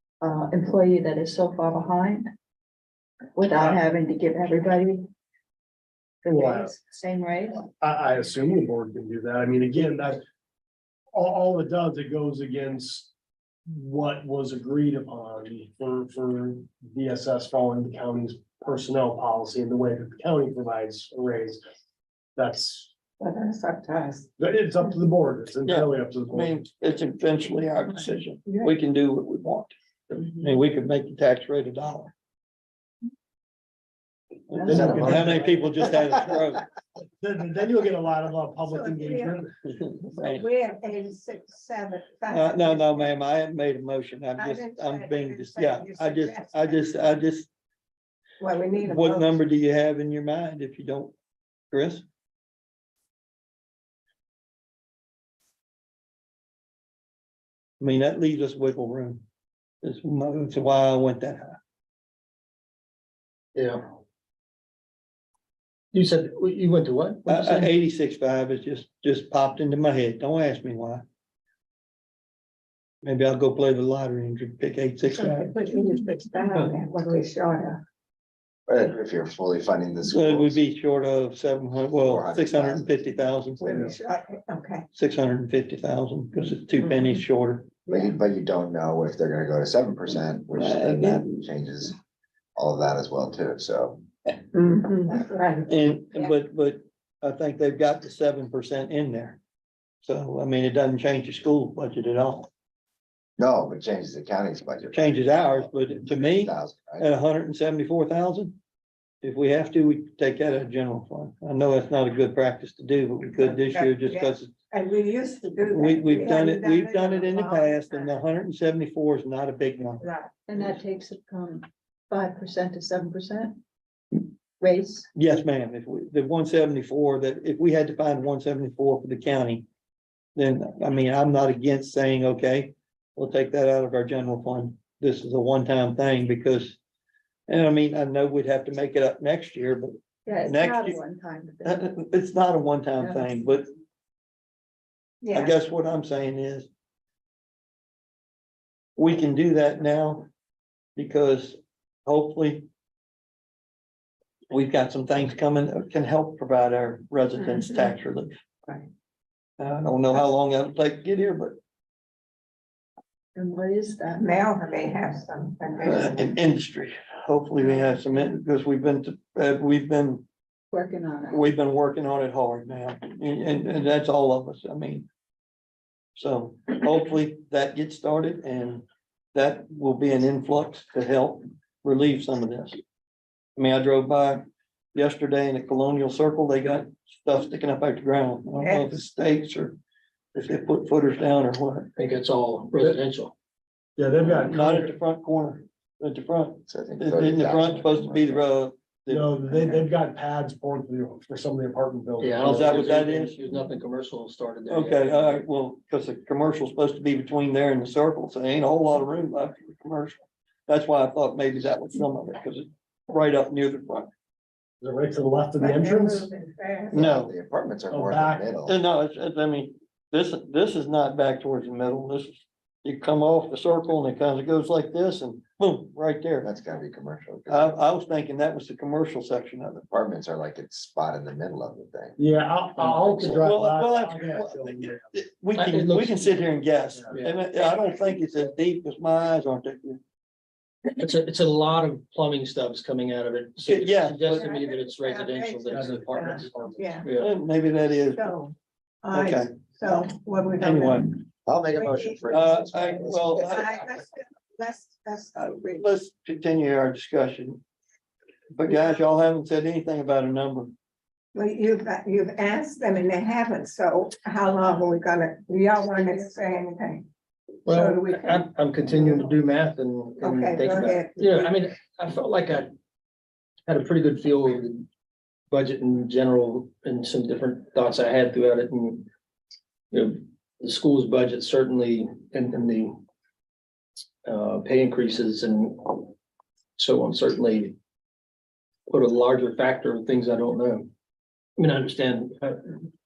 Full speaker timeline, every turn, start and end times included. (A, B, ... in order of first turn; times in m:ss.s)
0:00.2-0:02.3 A
0:03.4-0:05.1 A
0:03.6-0:03.8 B
0:06.2-0:07.7 A
0:06.3-0:06.8 B
0:07.8-0:10.2 B
0:11.1-0:13.1 B
0:13.7-0:21.6 B
0:22.4-0:22.9 B
0:23.2-0:24.3 C
0:24.4-0:26.7 B
0:25.6-0:32.1 D
0:28.5-0:28.7 C
0:34.5-0:36.6 D
0:34.6-0:35.3 A
0:34.7-0:36.4 B
0:34.7-0:35.4 E
0:37.0-0:39.5 B
0:38.6-0:39.4 C
0:39.7-0:40.4 D
0:40.1-0:43.2 C
0:42.3-0:47.5 D
0:44.4-0:47.0 C
0:48.4-0:49.4 C
0:48.8-0:51.2 D
0:51.7-0:52.0 D
0:57.8-0:59.2 D
0:59.8-1:01.6 D
1:03.6-1:03.9 F
1:05.9-1:07.7 F
1:07.3-1:11.0 D
1:13.0-1:15.5 D
1:15.1-1:17.8 C
1:18.7-1:20.6 E
1:20.1-1:23.8 D
1:21.9-1:23.0 E
1:23.6-1:24.9 C
1:24.9-1:27.8 D
1:27.9-1:32.0 E
1:30.6-1:31.4 D
1:32.6-1:34.0 E
1:34.5-1:36.3 C
1:35.7-1:39.4 D
1:40.0-1:42.5 D
1:43.4-1:47.1 E
1:44.9-1:48.6 D
1:49.2-1:54.6 D
1:53.4-1:58.2 C
1:55.6-2:00.0 D
2:00.0-2:00.3 C
2:00.5-2:03.6 A
2:04.6-2:05.1 A
2:05.2-2:09.7 D
2:10.4-2:16.8 D
2:17.5-2:19.9 D
2:20.3-2:21.8 A
2:20.4-2:21.0 D
2:21.6-2:23.6 D
2:25.2-2:25.6 C
2:25.3-2:26.7 D
2:29.0-2:30.3 D
2:31.0-2:32.7 D
2:34.5-2:38.4 D
2:39.6-2:41.6 D
2:43.4-2:44.5 A
2:44.2-2:46.3 C
2:45.8-2:50.3 D
2:50.7-2:51.5 A
2:51.3-2:55.1 D
2:56.2-3:02.8 D
3:03.6-3:09.8 D
3:08.6-3:09.0 C
3:10.3-3:11.9 D
3:12.0-3:13.3 F
3:14.0-3:15.0 B
3:14.3-3:19.8 D
3:16.7-3:18.4 E
3:19.1-3:22.9 B
3:22.2-3:25.4 F
3:22.4-3:23.4 D
3:24.7-3:34.1 D
3:34.8-3:36.3 B
3:35.6-3:37.1 C
3:36.9-3:37.3 D
3:36.9-3:38.8 E
3:37.9-3:38.5 B
3:38.6-3:46.5 D
3:46.4-3:47.8 E
3:47.5-3:49.9 D
3:49.9-3:52.2 E
3:52.2-3:55.0 B
3:52.8-3:53.2 F
3:53.2-4:00.0 D
3:55.5-3:56.4 F
3:57.1-3:57.4 F
4:00.9-4:06.5 F
4:03.6-4:04.5 D
4:04.3-4:07.1 C
4:05.7-4:06.9 B
4:07.0-4:07.3 F
4:07.1-4:08.3 D
4:08.0-4:15.9 C
4:09.1-4:11.2 D
4:11.4-4:13.7 E
4:12.3-4:13.7 D
4:15.4-4:17.6 D
4:18.5-4:20.7 D
4:21.3-4:27.1 C
4:27.7-4:32.7 F
4:27.7-4:28.4 C
4:30.2-4:31.1 C
4:33.7-4:34.9 F
4:35.5-4:39.1 F
4:39.9-4:43.0 F
4:44.2-4:46.1 F
4:46.8-4:47.8 F
4:48.9-4:50.9 F
4:51.6-4:52.9 F